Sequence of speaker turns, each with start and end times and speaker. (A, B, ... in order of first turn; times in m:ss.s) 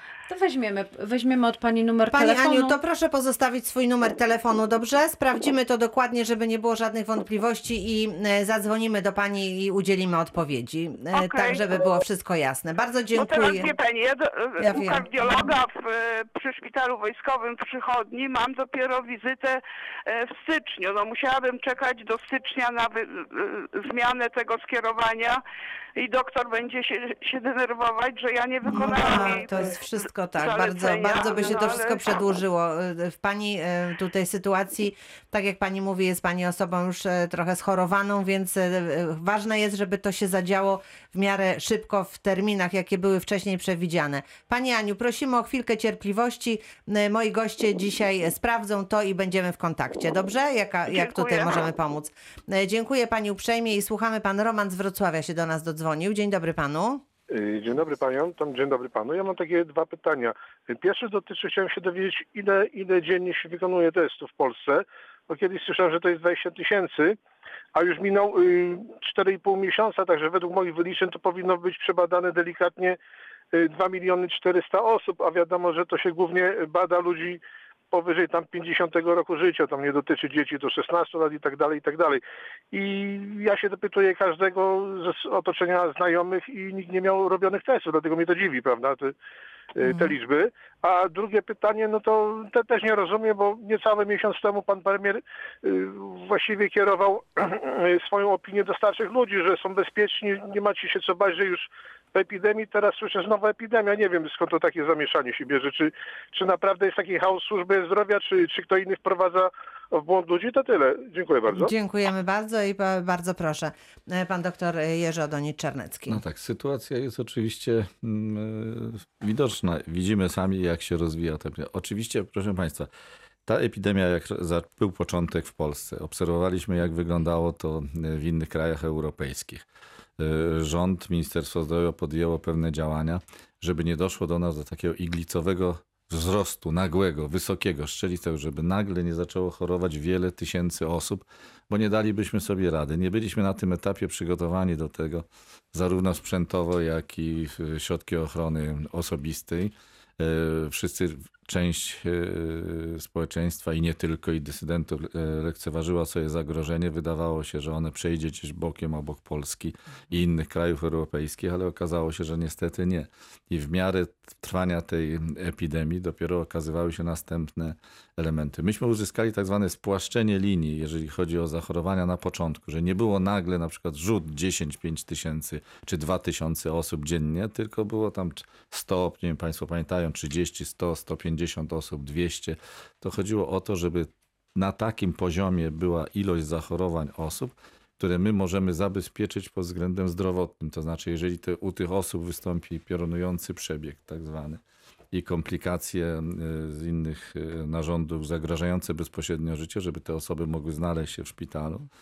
0:00.3-0:02.8 A
0:02.1-0:13.7 B
0:11.1-0:11.6 C
0:13.1-0:25.4 C
0:14.6-0:15.5 B
0:26.0-0:29.8 C
0:28.6-0:57.0 B
0:30.4-0:32.1 C
0:50.9-0:51.6 C
0:57.3-1:07.2 D
1:07.7-1:13.0 D
1:13.5-1:22.2 D
1:22.7-1:29.1 D
1:29.8-1:51.7 D
1:29.9-1:30.1 B
1:51.5-1:56.2 B
1:56.1-2:02.9 E
2:03.4-2:09.6 E
2:10.2-3:14.6 E
3:15.1-3:21.8 E